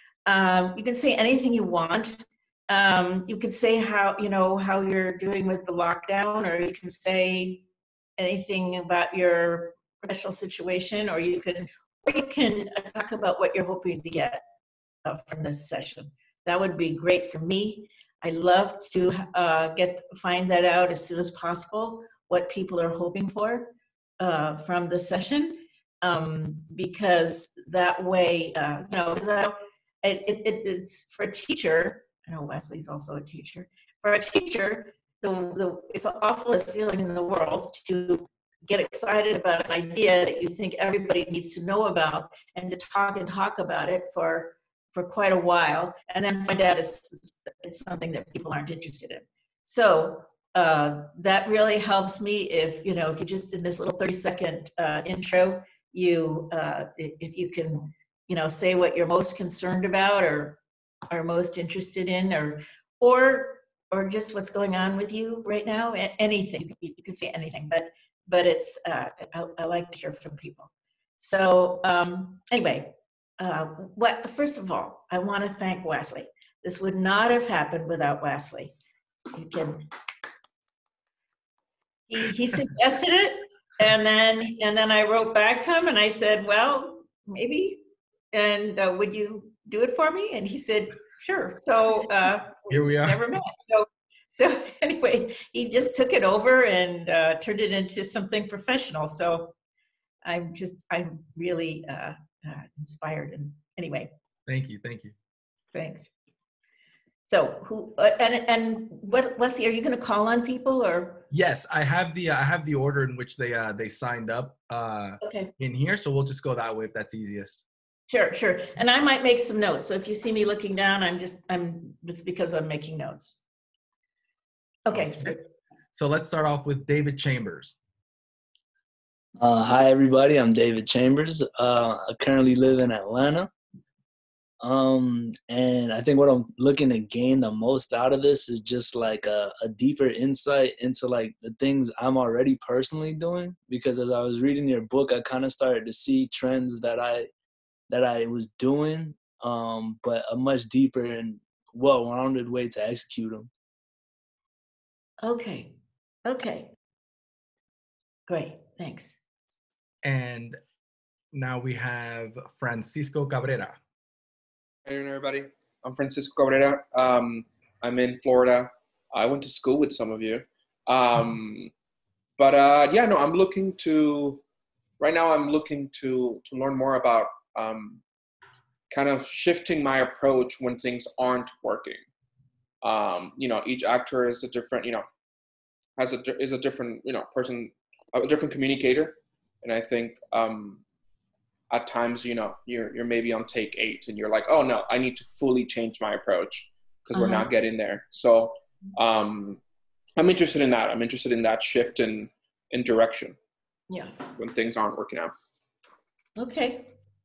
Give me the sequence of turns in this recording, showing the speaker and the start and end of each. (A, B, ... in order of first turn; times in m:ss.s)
0:00.3-0:07.6 A
0:08.2-0:14.4 A
0:15.0-1:00.6 A
1:01.1-1:18.8 A
1:19.3-1:19.9 A
1:22.1-1:39.5 A
1:32.7-1:33.2 B
1:40.2-1:44.1 A
1:44.5-1:45.1 B
1:45.7-1:46.1 A
1:47.2-1:51.3 A
1:51.3-1:57.6 B
1:55.2-1:55.5 A
1:58.1-2:03.4 A
2:04.9-2:05.4 A
2:04.9-2:05.4 B
2:05.9-2:07.8 B
2:09.4-2:13.5 C
2:14.6-2:27.3 C
2:27.9-2:33.5 C
2:35.2-2:35.7 A
2:36.2-2:36.7 A
2:38.3-2:39.2 A
2:40.0-2:40.6 B
2:41.3-2:43.8 B
2:44.9-2:51.7 D
2:52.4-2:54.4 D
2:55.0-2:58.0 D
2:58.9-3:02.0 D
3:02.8-3:05.1 D
3:06.0-3:10.8 D
3:11.7-3:19.6 D
3:17.1-3:17.5 A
3:20.2-3:23.4 D
3:23.9-3:24.2 A
3:24.4-3:25.3 D
3:26.4-3:26.9 A